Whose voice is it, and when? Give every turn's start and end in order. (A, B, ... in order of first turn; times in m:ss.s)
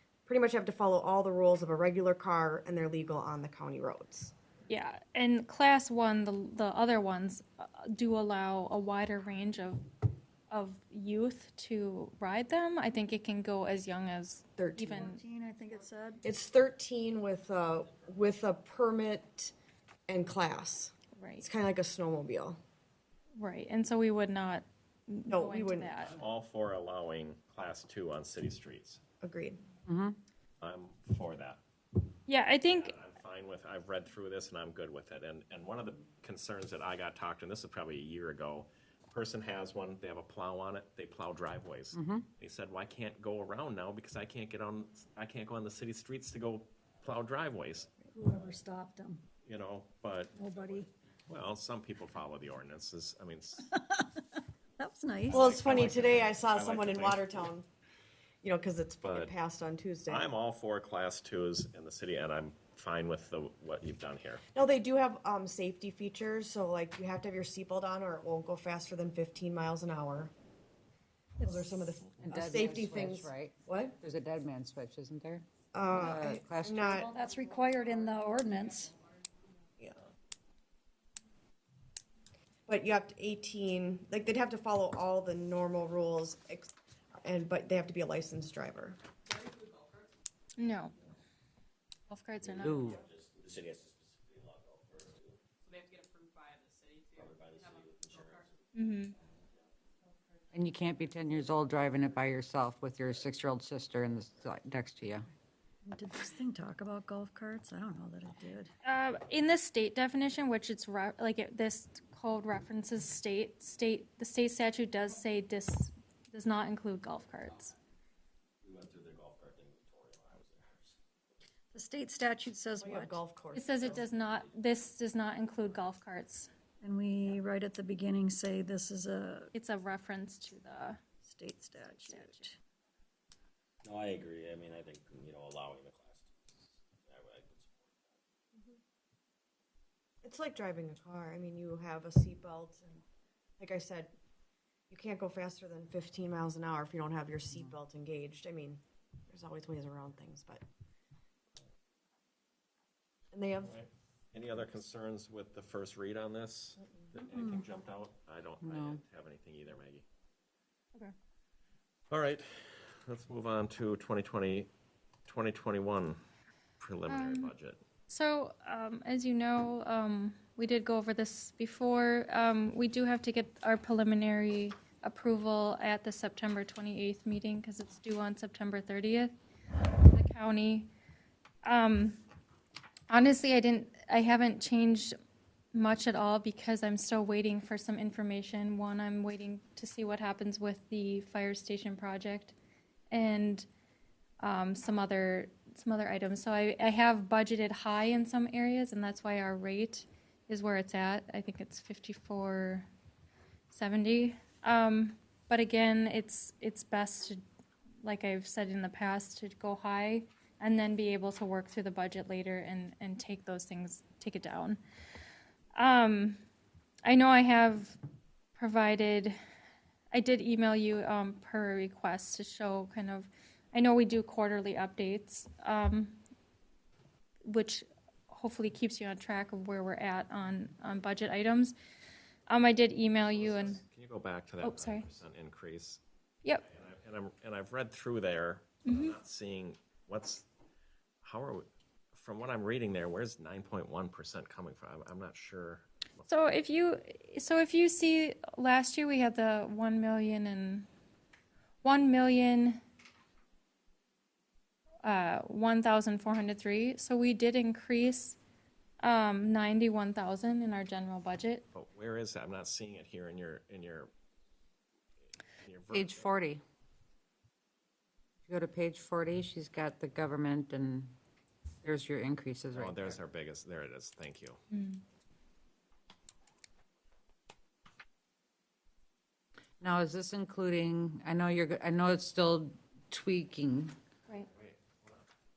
0:00.3-0:04.3 A
0:04.7-0:09.9 B
0:10.5-0:15.2 B
0:14.6-0:15.2 A
0:14.8-0:16.2 C
0:16.2-0:19.5 A
0:17.8-0:18.1 D
0:20.1-0:22.6 A
0:21.1-0:21.4 B
0:23.4-0:26.1 B
0:25.3-0:25.9 A
0:26.0-0:29.0 E
0:29.2-0:29.6 A
0:29.8-0:30.2 F
0:30.6-0:31.6 E
0:32.3-0:32.9 B
0:32.6-0:48.0 E
0:41.9-0:42.3 F
0:48.1-0:49.2 C
0:49.4-0:53.7 E
0:50.3-0:50.9 C
0:53.7-0:54.2 C
0:54.8-0:55.5 C
0:55.3-0:57.5 E
0:55.3-0:57.6 A
0:58.4-1:00.3 A
0:59.0-0:59.3 E
1:00.1-1:04.4 E
1:04.5-1:10.3 A
1:11.4-1:11.9 C
1:11.4-1:14.0 A
1:12.2-1:17.0 F
1:15.7-1:17.1 A
1:16.8-1:18.9 C
1:22.7-1:26.7 A
1:27.2-1:29.0 A
1:29.3-1:30.1 G
1:30.6-1:30.9 B
1:32.1-1:33.0 B
1:32.4-1:35.4 D
1:32.6-1:33.0 F
1:35.7-1:38.4 G
1:37.1-1:39.7 D
1:38.7-1:39.1 B
1:40.5-1:45.3 F
1:45.8-1:48.7 C
1:48.8-1:57.7 B
1:58.6-2:01.0 D
2:01.7-2:03.2 C
2:02.8-2:04.0 A
2:03.5-2:06.5 B
2:03.8-2:04.8 D
2:06.8-2:09.5 C
2:09.5-2:11.0 B
2:11.2-2:12.6 C
2:11.8-2:12.4 B
2:13.8-2:18.2 D
2:20.2-2:23.0 A
2:23.6-2:24.2 A
2:24.9-2:30.6 A
2:33.3-2:33.8 A
2:33.6-2:40.0 E
2:38.6-2:39.0 F
2:42.1-2:44.7 E
2:45.3-2:46.2 E
2:46.8-2:47.8 E
2:47.1-2:47.5 B
2:48.1-2:59.4 B
3:00.0-3:00.9 B
3:01.6-3:02.2 B
3:03.1-3:05.1 B
3:05.7-3:12.5 B
3:13.1-3:13.7 B
3:14.4-3:22.9 B
3:23.7-3:27.4 B
3:28.0-3:34.8 B
3:35.7-3:36.4 B
3:37.0-3:38.0 B
3:38.6-3:39.4 B
3:40.1-3:46.2 B
3:47.4-3:51.8 B
3:52.5-3:53.8 B
3:53.2-3:56.0 E
3:54.6-3:55.0 B
3:56.6-4:00.4 E
3:58.8-3:59.2 B
4:01.2-4:06.5 E
4:06.3-4:10.9 B
4:11.8-4:12.8 B
4:15.0-4:18.4 B
4:19.0-4:21.6 B
4:21.7-4:24.1 E
4:25.6-4:26.3 E
4:25.9-4:26.6 F
4:28.5-4:31.1 F
4:31.8-4:33.1 F
4:32.7-4:34.6 E
4:34.7-4:35.0 B
4:39.8-4:43.9 F
4:44.5-4:45.2 E